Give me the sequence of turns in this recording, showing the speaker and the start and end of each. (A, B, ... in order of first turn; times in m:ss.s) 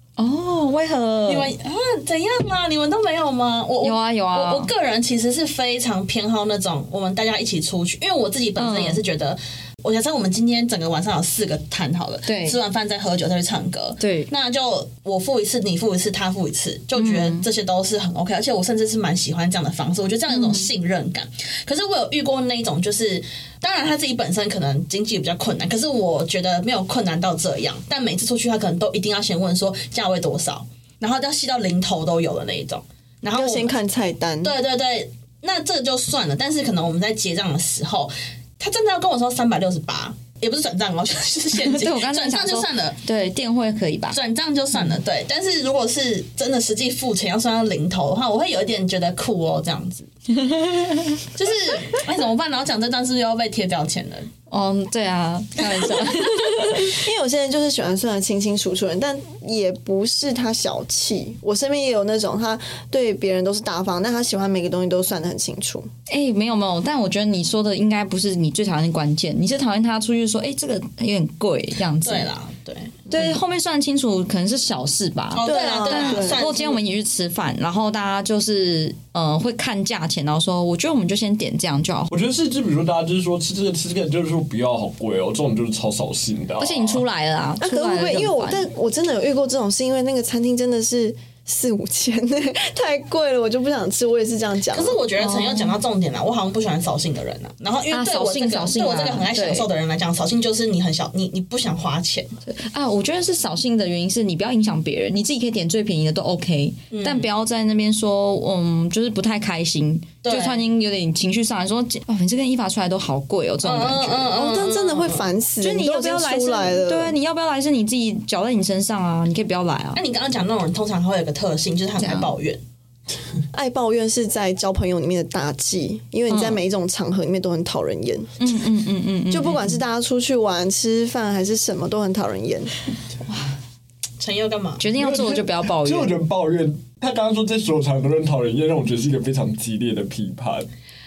0:00.2-0:01.5 A
0:01.3-0:33.7 B
0:03.8-0:04.7 A
0:08.6-0:09.0 A
0:12.3-0:12.6 A
0:14.0-0:14.3 A
0:17.0-0:17.4 A
0:20.3-0:20.7 A
0:33.4-0:34.6 C
0:34.4-0:43.0 B
0:41.6-0:44.2 A
0:44.1-0:50.1 B
0:50.3-0:51.2 A
0:51.4-0:54.3 B
0:54.5-0:57.0 A
0:55.6-0:56.0 B
0:56.8-1:05.9 C
1:06.1-1:12.3 A
1:12.0-1:13.1 B
1:13.1-1:22.1 A
1:15.3-1:16.8 B
1:15.4-1:16.4 C
1:22.1-1:27.0 D
1:26.6-1:28.7 A
1:27.6-1:35.0 C
1:34.7-1:42.3 B
1:35.2-1:35.8 A
1:37.9-1:39.7 A
1:42.5-1:54.4 A
1:46.9-1:47.3 B
1:50.2-1:50.6 B
1:53.6-1:55.3 B
1:54.3-1:57.1 C
1:55.6-2:00.0 A
2:00.0-2:02.6 B
2:02.0-2:02.3 A
2:03.5-2:08.4 C
2:06.3-2:06.6 A
2:08.4-2:09.8 A
2:09.3-2:12.7 C
2:14.2-2:14.9 B
2:14.8-2:16.2 A
2:15.0-2:20.7 D